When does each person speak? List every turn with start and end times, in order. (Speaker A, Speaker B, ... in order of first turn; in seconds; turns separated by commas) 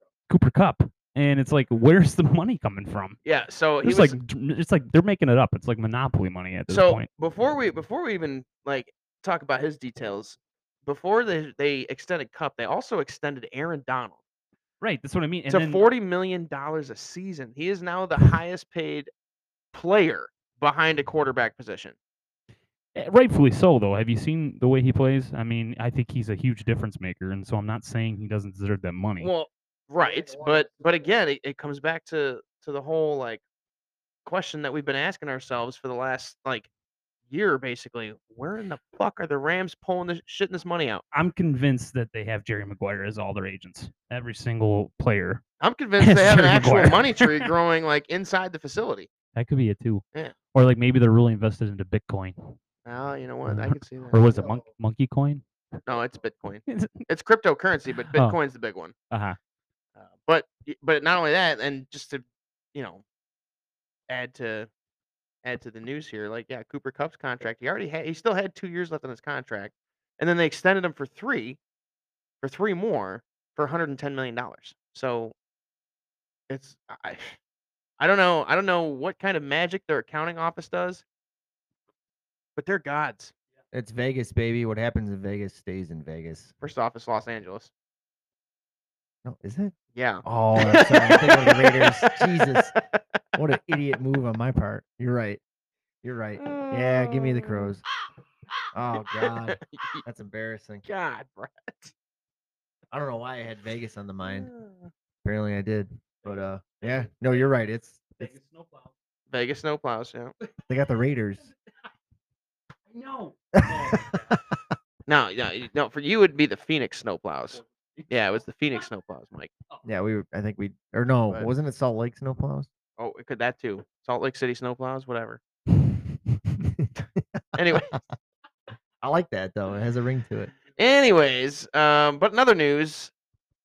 Speaker A: 0.3-3.2, Speaker B: 3.2-4.2, Speaker A: 3.8-7.1, Speaker B: 6.7-14.2, Speaker A: 14.8-15.8, Speaker B: 15.5-19.1, Speaker B: 19.7-21.9, Speaker A: 22.9-29.3, Speaker B: 29.2-33.4, Speaker B: 34.2-36.7, Speaker B: 37.3-41.0, Speaker A: 41.1-45.4, Speaker B: 45.6-49.1, Speaker A: 46.0-47.5, Speaker A: 49.4-50.0, Speaker A: 50.5-52.6, Speaker B: 52.9-54.2, Speaker A: 53.5-55.4, Speaker B: 55.9-59.0, Speaker A: 56.7-57.1, Speaker A: 59.1-59.4, Speaker B: 60.0-62.2, Speaker B: 62.8-63.0, Speaker B: 64.1-64.7, Speaker B: 65.4-71.6, Speaker B: 72.4-75.3, Speaker B: 76.5-77.4, Speaker B: 78.0-81.0, Speaker B: 82.6-83.3, Speaker C: 83.7-86.5, Speaker B: 86.6-87.7, Speaker C: 89.2-92.8, Speaker B: 90.0-92.8, Speaker C: 93.3-95.4, Speaker C: 96.0-97.8, Speaker B: 96.4-97.7, Speaker C: 98.7-100.9, Speaker B: 99.1-100.0, Speaker B: 100.9-101.9, Speaker C: 102.9-104.5, Speaker B: 104.2-104.9, Speaker C: 105.2-108.3, Speaker A: 108.2-108.9, Speaker B: 109.3-110.3, Speaker C: 110.7-111.5, Speaker A: 112.9-114.4, Speaker C: 113.5-114.2, Speaker B: 115.1-119.5, Speaker C: 119.8-122.7, Speaker B: 123.0-125.4, Speaker C: 125.9-128.0, Speaker B: 127.5-128.0, Speaker C: 129.0-130.5, Speaker B: 130.8-133.1